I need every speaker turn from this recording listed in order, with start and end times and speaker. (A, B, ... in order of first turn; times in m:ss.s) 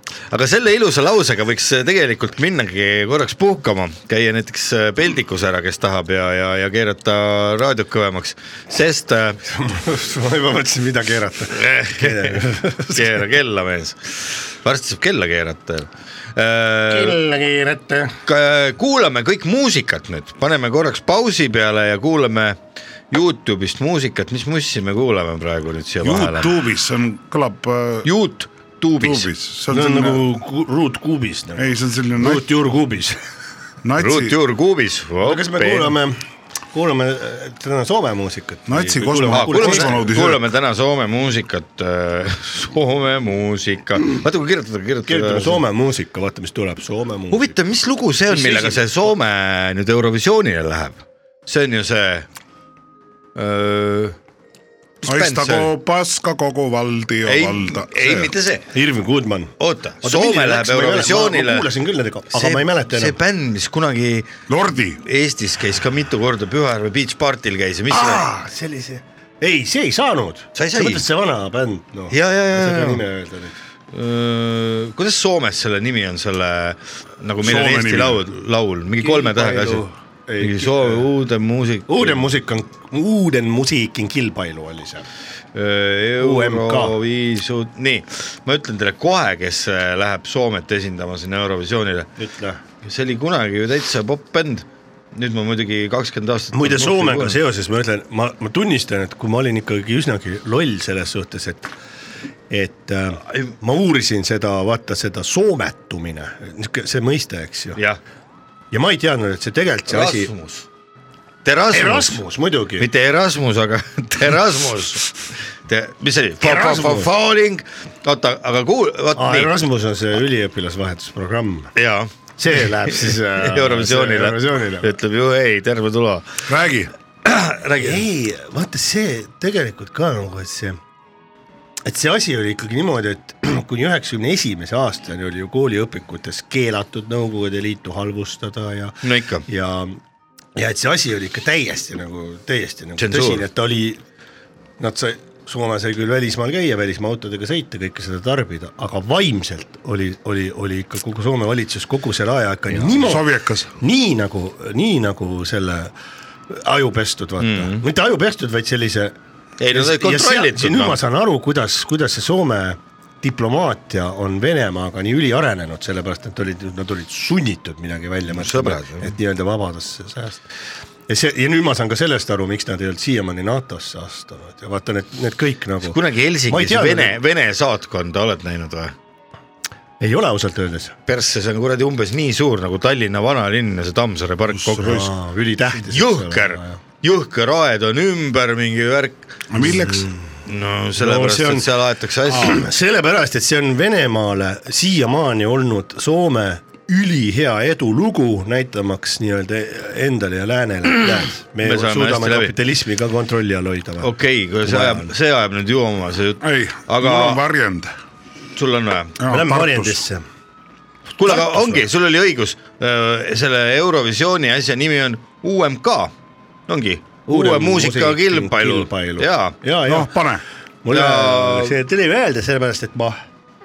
0:00.3-0:09.4 A
0:09.5-0:13.2 B
0:11.5-0:17.2 A
0:16.9-0:18.2 B
0:18.3-0:22.6 A
0:23.1-0:26.6 A
0:26.0-0:28.1 C
0:28.0-0:29.3 A
0:29.0-0:30.2 C
0:29.7-0:33.2 B
0:31.6-0:32.4 C
0:33.8-0:34.4 C
0:34.0-0:36.0 A
0:35.2-0:36.2 B
0:36.7-0:40.0 B
0:38.7-0:40.4 C
0:39.3-0:45.6 A
0:45.1-0:47.5 B
0:47.3-0:52.3 A
0:48.3-0:48.8 B
0:53.4-0:54.2 A
0:55.0-0:55.7 A
0:55.0-0:58.3 C
0:57.2-0:58.7 A
0:58.7-1:03.2 B
0:59.6-1:01.7 A
1:02.3-1:04.3 A
1:04.5-1:05.0 C
1:05.0-1:08.3 A
1:07.9-1:13.6 B
1:10.6-1:11.0 A
1:12.1-1:13.0 A
1:13.9-1:19.8 A
1:17.4-1:18.2 C
1:19.0-1:21.0 B
1:20.4-1:22.3 A
1:21.9-1:25.1 B
1:25.5-1:32.1 A
1:26.2-1:27.0 B
1:32.2-1:32.6 B
1:32.8-1:37.4 A
1:36.5-1:41.7 B
1:42.5-1:47.8 B
1:48.7-1:50.3 B
1:49.9-1:50.6 A
1:51.4-1:52.2 A
1:51.7-1:52.9 B
1:52.8-1:55.1 A
1:55.7-1:59.5 A
1:56.4-1:57.1 B
1:59.2-2:01.7 B
2:01.8-2:06.4 A
2:02.4-2:04.9 B
2:06.5-2:06.9 C
2:07.2-2:08.0 A
2:07.8-2:10.8 B
2:11.8-2:20.0 B
2:19.0-2:19.4 A
2:20.6-2:24.0 B
2:23.0-2:23.4 A
2:24.8-2:35.9 B
2:32.8-2:33.7 C
2:36.5-2:39.2 B
2:37.4-2:37.8 A
2:39.6-2:41.0 A
2:39.7-2:50.4 B
2:48.3-2:49.1 A
2:51.1-2:56.0 B
2:55.8-2:58.9 A
2:56.5-2:57.2 B
3:00.0-3:01.0 B
3:01.1-3:05.1 A
3:04.5-3:05.1 C
3:04.8-3:06.8 B
3:05.8-3:09.2 A
3:09.5-3:10.1 C
3:09.6-3:10.2 B
3:10.4-3:12.6 A
3:11.0-3:11.7 B
3:12.3-3:24.1 B
3:21.6-3:22.5 A
3:24.0-3:27.4 A
3:24.6-3:25.1 B
3:26.4-3:27.9 C
3:28.6-3:29.2 A
3:29.2-3:30.0 C
3:29.3-3:30.2 B
3:31.2-3:36.1 A
3:31.2-3:31.8 B
3:36.7-3:39.6 A
3:37.3-3:40.1 B
3:39.9-3:40.4 C
3:40.8-3:43.2 B
3:40.9-3:41.8 A